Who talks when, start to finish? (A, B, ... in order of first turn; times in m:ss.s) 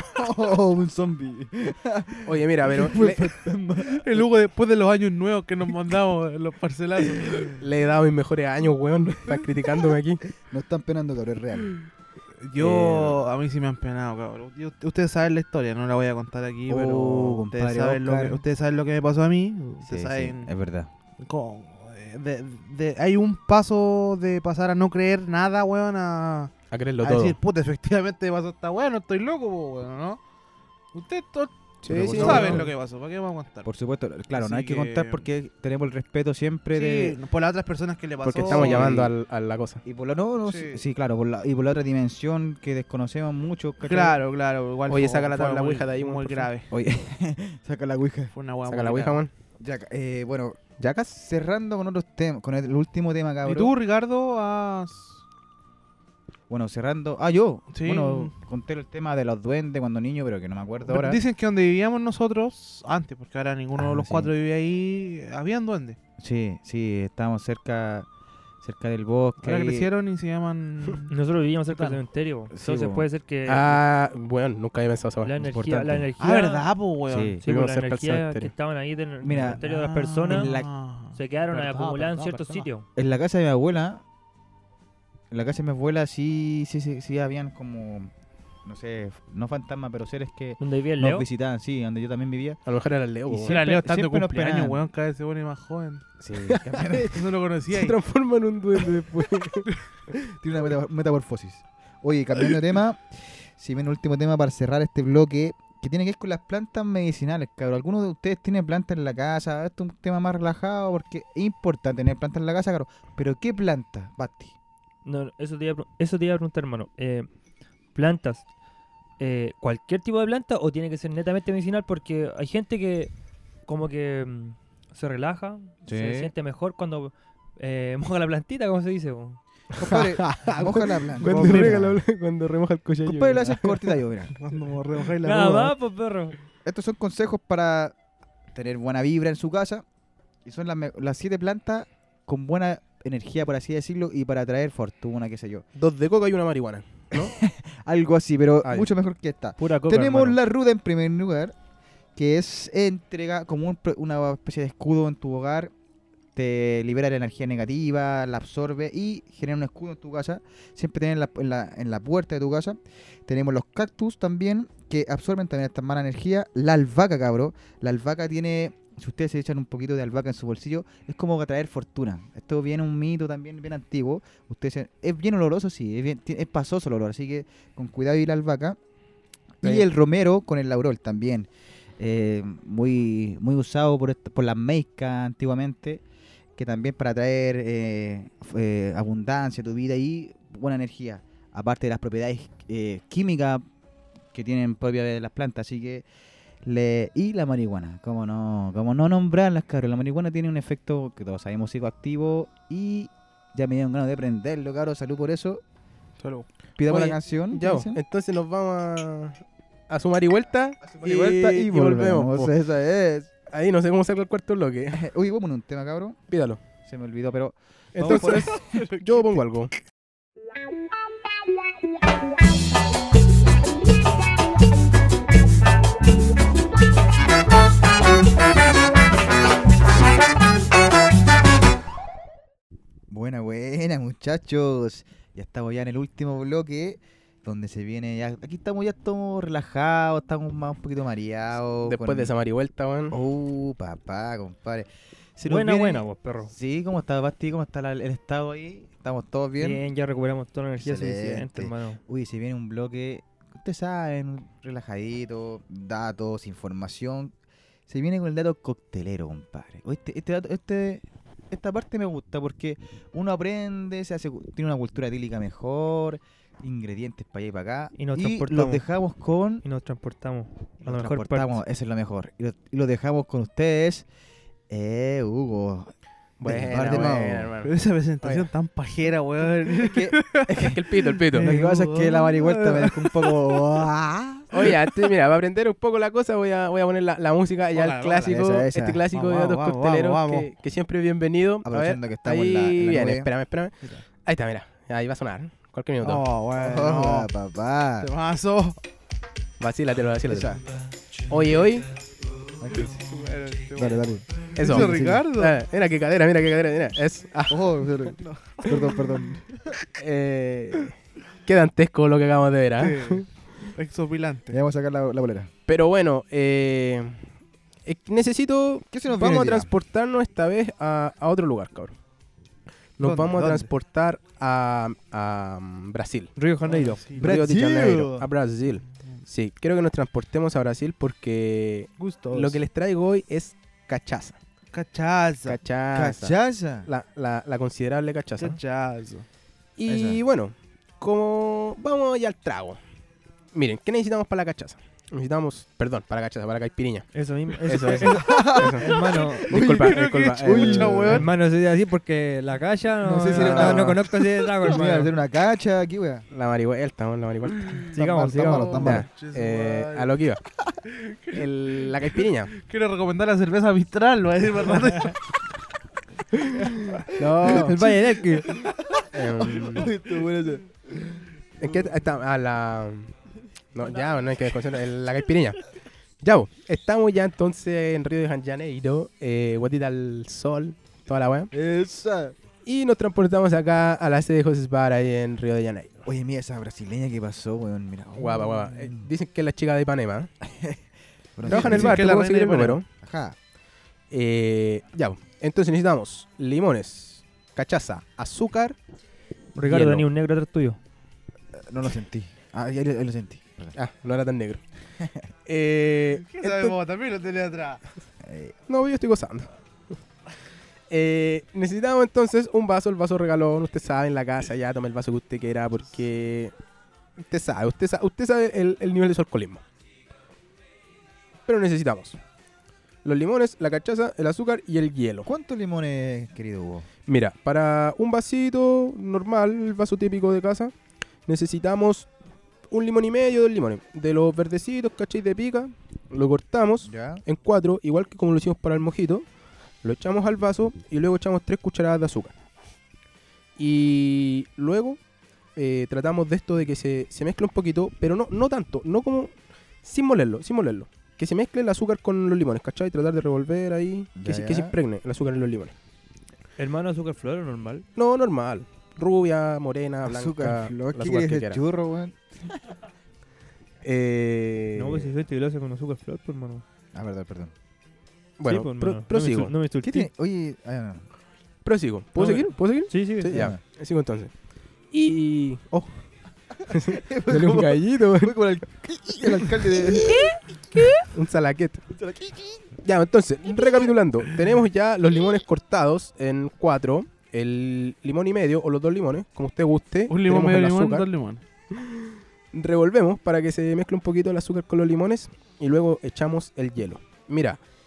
0:00.1-0:04.2 A
0:02.2-0:03.4 B
0:03.8-0:07.6 C
0:07.6-0:10.2 B
0:10.4-0:11.8 A
0:12.4-0:20.5 C
0:12.6-0:13.2 B
0:16.7-0:18.4 A
0:19.8-0:20.9 A
0:21.2-0:30.2 C
0:26.7-0:27.4 B
0:30.9-0:33.7 C
0:31.8-0:32.7 B
0:31.9-0:32.7 A
0:33.6-0:37.2 A
0:34.3-0:35.2 C
0:36.7-0:39.1 C
0:38.2-0:39.8 B
0:38.4-0:39.1 A
0:39.8-0:44.2 A
0:40.5-0:40.8 C
0:43.8-0:46.7 C
0:44.9-0:46.5 B
0:46.7-0:48.3 A
0:48.3-0:49.2 C
0:48.7-0:49.3 B
0:49.6-0:53.8 A
0:50.8-0:51.1 B
0:53.4-0:55.2 C
0:56.5-1:01.2 A
0:57.7-0:58.3 C
1:00.9-1:06.0 C
1:03.8-1:04.3 A
1:06.2-1:08.1 A
1:08.6-1:09.9 A
1:09.4-1:11.1 C
1:11.1-1:13.8 D
1:11.7-1:12.0 C
1:12.5-1:13.1 A
1:13.5-1:15.3 B
1:15.2-1:16.7 D
1:15.4-1:16.1 A
1:16.2-1:17.4 C
1:17.1-1:17.4 A
1:17.4-1:20.5 D
1:17.4-1:18.5 B
1:19.2-1:19.6 A
1:19.6-1:22.7 C
1:20.3-1:20.7 A
1:21.1-1:22.9 D
1:23.0-1:24.0 A
1:25.3-1:28.1 A
1:28.6-1:32.6 A
1:30.6-1:31.3 D
1:32.7-1:33.6 B
1:33.3-1:34.8 A
1:33.4-1:36.0 C
1:36.2-1:37.2 A
1:36.4-1:37.2 B
1:37.1-1:38.0 C
1:37.7-1:39.7 B
1:40.4-1:54.6 A
1:55.0-1:57.3 D
1:58.0-1:58.4 D
1:59.2-2:03.1 D
2:03.7-2:09.4 D
2:05.9-2:06.3 A
2:09.7-2:12.0 A
2:09.8-2:14.0 B
2:11.2-2:11.8 C
2:13.0-2:14.4 A
2:14.3-2:15.8 C
2:15.2-2:16.4 D
2:16.6-2:18.0 A
2:18.5-2:19.8 A
2:20.4-2:25.6 A
2:25.8-2:27.3 B
2:27.1-2:31.6 A
2:28.6-2:28.9 B
2:29.6-2:30.4 D
2:32.2-2:35.7 A
2:36.4-2:58.8 A
2:59.6-3:06.0 A
3:06.6-3:13.6 A
3:14.3-3:16.0 A
3:16.6-3:25.6 A
3:26.2-3:26.5 C
3:26.8-3:28.0 A
3:26.9-3:32.5 B
3:30.8-3:33.3 A
3:33.5-3:35.0 B
3:34.9-3:36.2 A
3:36.3-3:36.6 B
3:36.8-3:38.9 A
3:38.0-3:39.7 B
3:38.1-3:38.9 C
3:53.1-4:02.3 A
4:01.8-4:03.2 B
4:03.1-4:09.8 A
4:05.5-4:06.5 D
4:09.6-4:12.0 D
4:10.8-4:17.3 A
4:17.9-4:29.6 A
4:28.0-4:28.9 D
4:29.6-4:31.6 D
4:30.8-4:34.0 A
4:34.7-4:37.5 A
4:36.4-4:38.5 B
4:36.9-4:43.8 C
4:39.8-4:40.8 A
4:40.5-4:41.5 B
4:41.3-4:44.7 A
4:44.5-4:56.3 B
4:47.7-4:48.4 C
4:48.2-4:49.0 A
4:49.1-4:50.5 C
4:51.6-4:53.3 A
4:56.0-4:57.3 C
4:56.6-4:58.1 A
4:58.0-4:58.8 C
4:59.6-5:00.6 B
5:00.3-5:00.6 A
5:01.3-5:01.9 B
5:02.6-5:03.0 A
5:02.8-5:05.6 C
5:03.8-5:05.3 A
5:04.6-5:07.8 B
5:07.5-5:09.6 A
5:08.2-5:09.2 C
5:10.0-5:13.3 B
5:12.8-5:14.6 C
5:14.5-5:15.5 A
5:15.7-5:17.2 B
5:17.8-5:21.9 B
5:18.9-5:19.7 A
5:23.0-5:26.3 B
5:23.0-5:23.7 C
5:26.4-5:27.1 D
5:26.7-5:27.3 C
5:27.2-5:28.3 A
5:27.2-5:34.4 B
5:32.0-5:32.6 C
5:34.7-5:35.6 C
5:35.5-5:36.4 B
5:35.9-5:36.9 A
5:36.9-5:38.6 B
5:38.4-5:39.3 C
5:39.8-5:42.8 B
5:39.9-5:40.2 A
5:43.5-5:47.1 B
5:47.1-5:49.5 D
5:47.7-5:48.9 B
5:48.0-5:51.2 A
5:49.5-5:51.2 B
5:49.8-5:51.3 C
5:51.1-5:55.1 D
5:53.0-5:56.2 A
5:53.4-5:53.8 B
5:56.3-5:57.8 B
5:57.9-5:59.1 A
5:57.9-5:58.9 D
5:58.6-6:00.4 B
5:58.8-6:00.1 C
6:00.9-6:05.2 C
6:01.3-6:02.5 B
6:06.9-6:07.7 C
6:07.1-6:07.8 B
6:07.4-6:09.2 A
6:07.7-6:08.5 D
6:09.1-6:09.9 B
6:09.7-6:11.2 A
6:11.6-6:13.2 B
6:13.8-6:15.6 B
6:16.2-6:21.5 B
6:21.5-6:22.4 A
6:22.7-6:26.1 B
6:26.1-6:29.1 A
6:28.2-6:30.3 B
6:30.5-6:30.8 A
6:31.4-6:32.1 A
6:31.5-6:32.8 C
6:31.5-6:32.9 B
6:33.0-6:33.4 A
6:34.1-6:38.8 B
6:39.6-6:40.8 D
6:39.6-6:40.1 B
6:41.5-6:43.8 A
6:43.8-6:44.6 B
6:45.5-6:46.8 B
6:46.2-6:47.8 C
6:48.2-6:48.5 A
6:48.7-6:49.5 B
6:50.9-6:56.5 B
6:57.2-6:59.6 B
7:01.5-7:02.2 B
7:03.0-7:05.3 B
7:05.2-7:06.9 A
7:07.1-7:10.7 B
7:11.3-7:12.1 B
7:12.7-7:19.2 B
7:16.8-7:17.2 A
7:19.8-7:22.3 B
7:23.6-7:25.0 B
7:25.6-7:29.3 B
7:29.8-7:35.7 B
7:34.2-7:34.7 A
7:36.6-7:37.9 D
7:38.0-7:41.6 B
7:40.0-7:42.6 A
7:43.8-7:45.1 B
7:44.8-7:46.6 D
7:46.9-7:47.5 A
7:48.4-7:49.5 B
7:48.4-7:50.1 D
7:49.8-7:51.1 A
7:51.6-7:54.3 B
7:52.2-7:53.4 D
7:53.3-7:53.6 A
7:54.9-7:55.9 B
7:56.7-7:58.6 B
7:56.7-8:00.4 A
7:59.2-7:59.9 B
8:01.1-8:01.8 B
8:01.9-8:02.7 A
8:02.8-8:11.1 B
8:10.1-8:11.4 C
8:11.7-8:17.6 B